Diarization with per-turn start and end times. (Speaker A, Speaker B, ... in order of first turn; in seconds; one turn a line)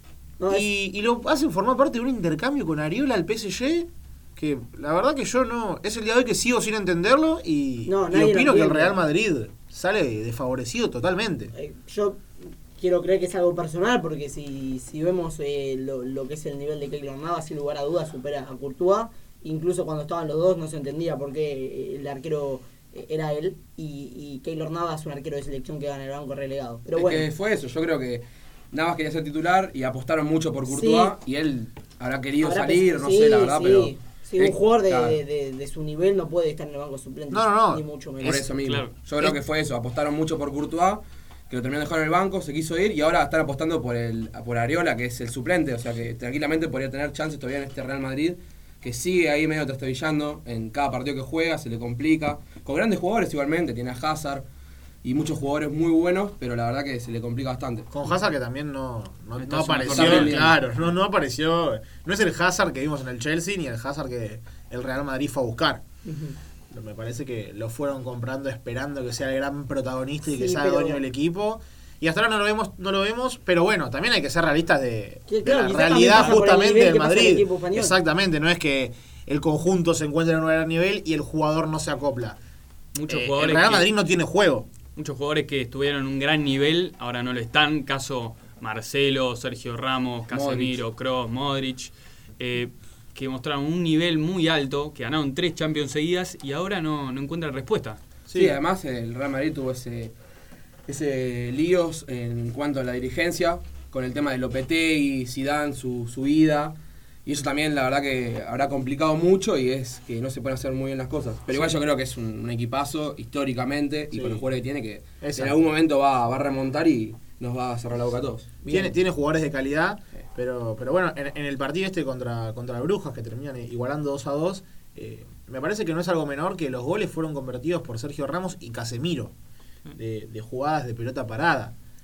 Speaker A: 0.4-0.7
Speaker B: 0.5-11.5
Speaker A: 7.9-9.0
Speaker A: 11.5-12.3
Speaker A: 12.8-27.2
Speaker C: 26.9-35.2
Speaker A: 30.7-31.1
Speaker A: 32.4-38.5
Speaker B: 37.3-37.8
Speaker C: 38.2-54.4
Speaker D: 38.6-39.0
Speaker C: 55.0-57.9
Speaker B: 57.9-65.8
Speaker D: 59.4-60.5
Speaker C: 59.8-60.9
Speaker A: 66.0-66.4
Speaker B: 66.7-82.4
Speaker A: 70.2-71.0
Speaker A: 75.3-78.0
Speaker D: 76.1-76.4
Speaker D: 83.0-83.9
Speaker B: 83.1-84.7
Speaker D: 85.0-98.0
Speaker C: 90.3-90.8
Speaker B: 98.3-98.6
Speaker C: 98.3-100.1
Speaker C: 100.9-118.6
Speaker B: 114.1-114.4
Speaker B: 115.2-115.6
Speaker B: 118.7-129.3
Speaker B: 129.9-131.8